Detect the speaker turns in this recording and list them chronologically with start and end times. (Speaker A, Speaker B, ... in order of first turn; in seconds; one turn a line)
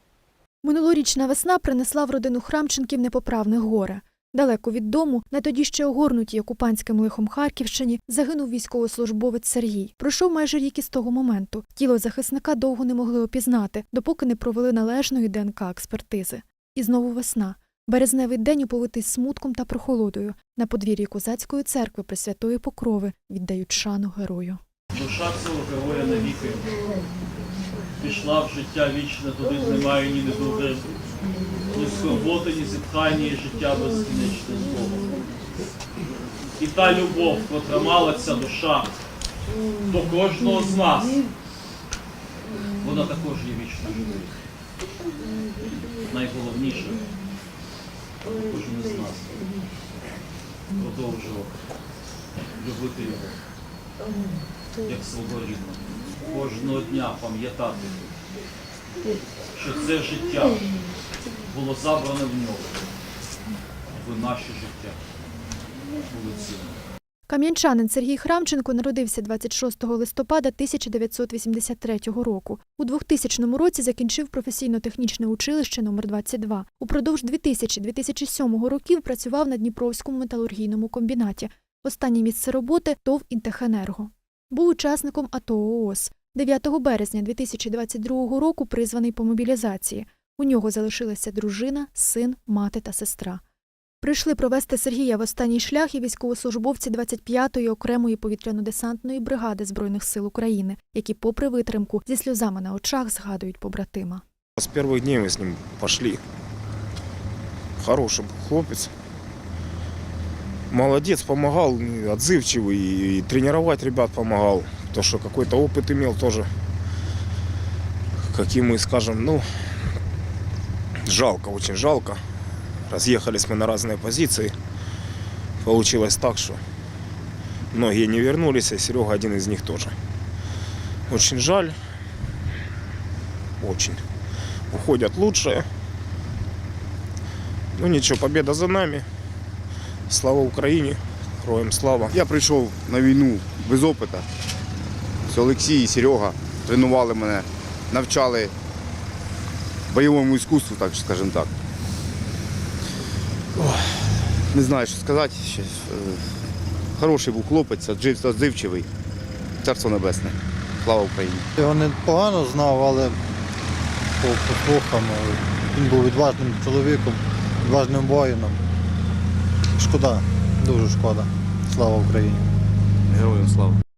Speaker A: 0.6-24.6
Speaker B: 24.9-26.7
Speaker B: 28.0-30.9
Speaker B: 31.7-35.1
Speaker B: 36.6-38.9
Speaker B: 39.9-41.2
Speaker B: 42.8-44.3
Speaker B: 46.1-47.1
Speaker B: 48.3-49.3
Speaker B: 50.8-51.5
Speaker B: 52.6-53.3
Speaker B: 54.8-57.9
Speaker B: 59.5-60.6
Speaker B: 61.5-62.8
Speaker B: 63.9-65.0
Speaker B: 66.1-66.8
Speaker A: 67.3-93.4
Speaker A: 94.0-104.2
Speaker C: 104.6-106.2
Speaker C: 107.8-108.9
Speaker C: 110.7-116.5
Speaker C: 118.3-119.5
Speaker C: 121.1-122.2
Speaker C: 122.9-124.5
Speaker C: 125.6-126.6
Speaker C: 127.7-129.9
Speaker C: 131.1-131.8
Speaker C: 133.6-134.0
Speaker C: 134.7-135.7
Speaker C: 137.8-139.1
Speaker C: 140.1-142.2
Speaker D: 142.1-144.3
Speaker D: 145.3-148.5
Speaker D: 149.9-151.5
Speaker D: 153.6-156.3
Speaker D: 157.0-158.9
Speaker D: 159.6-161.5
Speaker E: 161.6-163.2
Speaker E: 164.2-168.6
Speaker E: 169.8-172.5
Speaker D: 173.1-173.8